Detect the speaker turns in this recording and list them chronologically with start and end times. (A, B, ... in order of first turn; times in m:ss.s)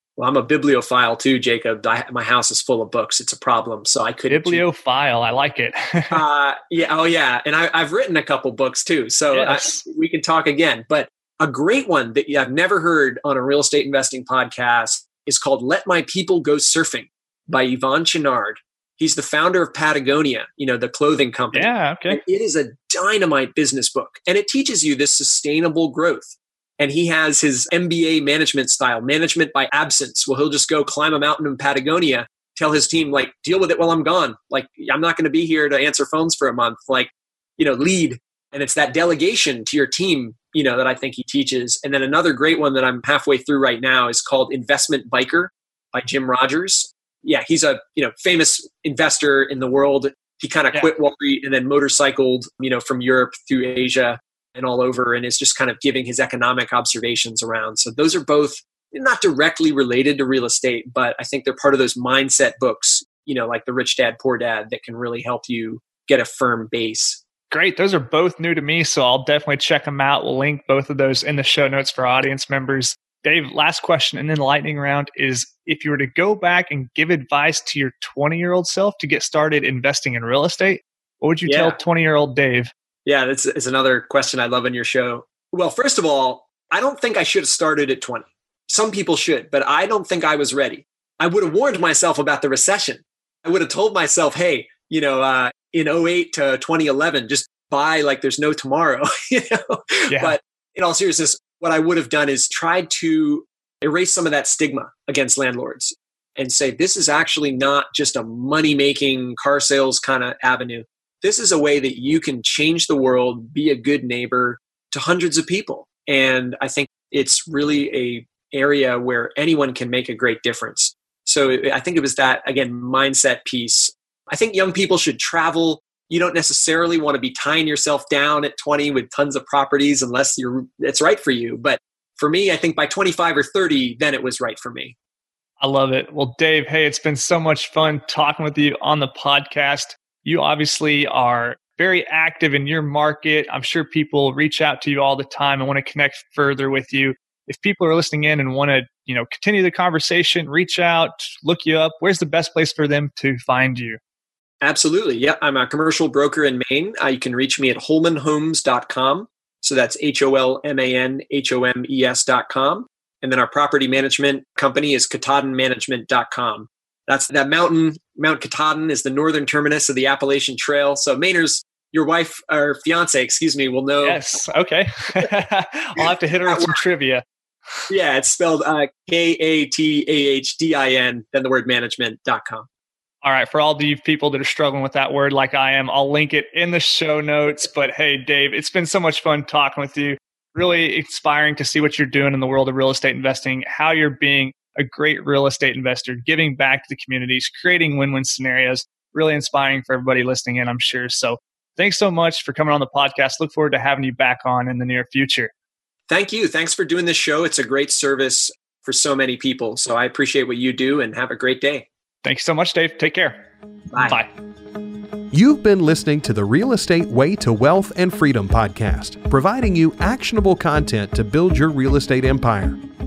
0:00.2-0:04.6 A
0:04.3-0:06.2 B
0:06.1-1:07.2 A
0:09.3-0:09.8 B
0:21.5-0:22.2 B
1:07.5-1:22.7 B
1:21.5-1:21.8 A
1:23.1-2:15.0 A
1:40.1-1:40.4 B
2:15.6-2:34.0 B
2:34.6-2:54.4 A
2:54.0-2:57.2 B
2:56.5-2:56.8 A
2:57.9-3:02.7 A
3:03.2-3:25.5 B
3:26.1-3:31.9 A
3:32.2-3:33.4 B
3:33.9-3:34.2 A
3:34.0-3:34.3 B
3:35.3-3:42.8 C